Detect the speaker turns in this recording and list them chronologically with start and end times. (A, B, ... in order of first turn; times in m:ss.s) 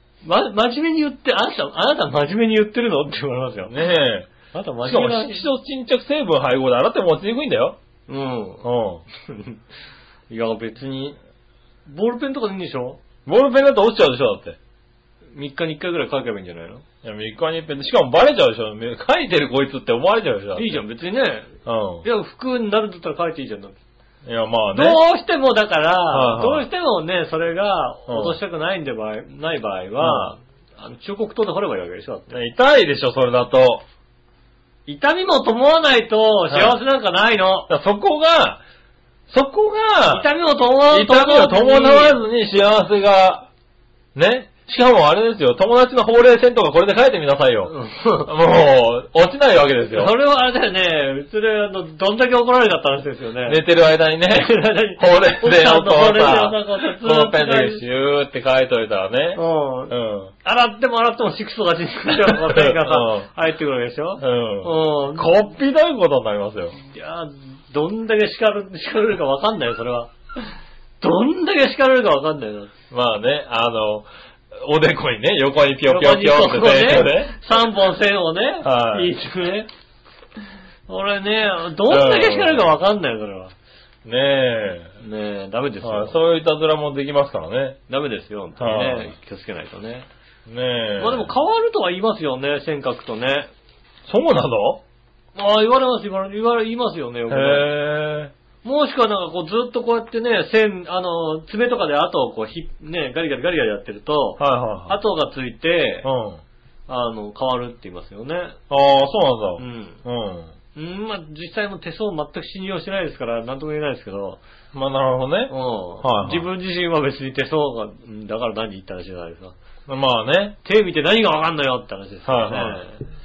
0:00.2-0:03.8 A
0:03.7-0:07.8 B
0:04.5-0:05.5 A
0:08.1-0:08.7 A
0:08.6-0:09.0 B
0:09.2-0:09.6 A
0:10.3-0:11.2 A
0:11.9-0:13.0 A
0:13.3-0:14.6 B
0:15.3-0:16.8 A
0:17.0-0:20.8 B
0:20.6-0:23.8 A
0:21.6-0:22.0 B
0:24.2-0:25.0 B
0:24.7-0:32.4 A
0:26.1-0:26.7 B
0:28.1-0:28.4 B
0:30.0-0:30.3 B
0:32.3-0:33.8 B
0:34.9-0:37.7 A
0:36.5-0:36.8 B
0:37.7-0:38.6 B
0:39.3-0:40.3 B
0:40.1-0:42.2 A
0:40.9-0:43.5 B
0:44.2-0:47.7 B
0:47.7-0:48.3 A
0:48.3-0:50.1 B
0:50.0-0:53.6 A
0:53.5-1:00.3 B
0:54.3-0:57.8 A
0:59.4-1:05.3 A
1:02.1-1:03.3 B
1:04.2-1:06.8 B
1:06.8-1:10.1 A
1:11.0-1:12.7 A
1:12.9-1:17.3 B
1:15.9-1:19.7 A
1:18.6-1:19.1 B
1:20.9-1:23.5 A
1:21.9-1:22.7 B
1:24.0-1:25.0 B
1:25.0-1:26.2 A
1:25.8-1:27.8 B
1:27.9-1:30.1 A
1:28.6-1:29.1 B
1:30.5-1:31.3 B
1:31.0-1:33.5 A
1:34.1-1:34.8 B
1:35.4-1:37.7 A
1:37.3-1:38.3 B
1:38.6-1:46.1 A
1:44.4-1:45.0 B
1:46.0-1:46.4 B
1:46.9-1:48.6 A
1:48.7-1:50.5 B
1:49.6-1:50.0 A
1:50.8-1:54.4 A
1:54.7-1:56.5 B
1:55.5-1:59.5 A
1:59.9-2:00.6 B
2:00.6-2:03.0 A
2:02.2-2:02.9 B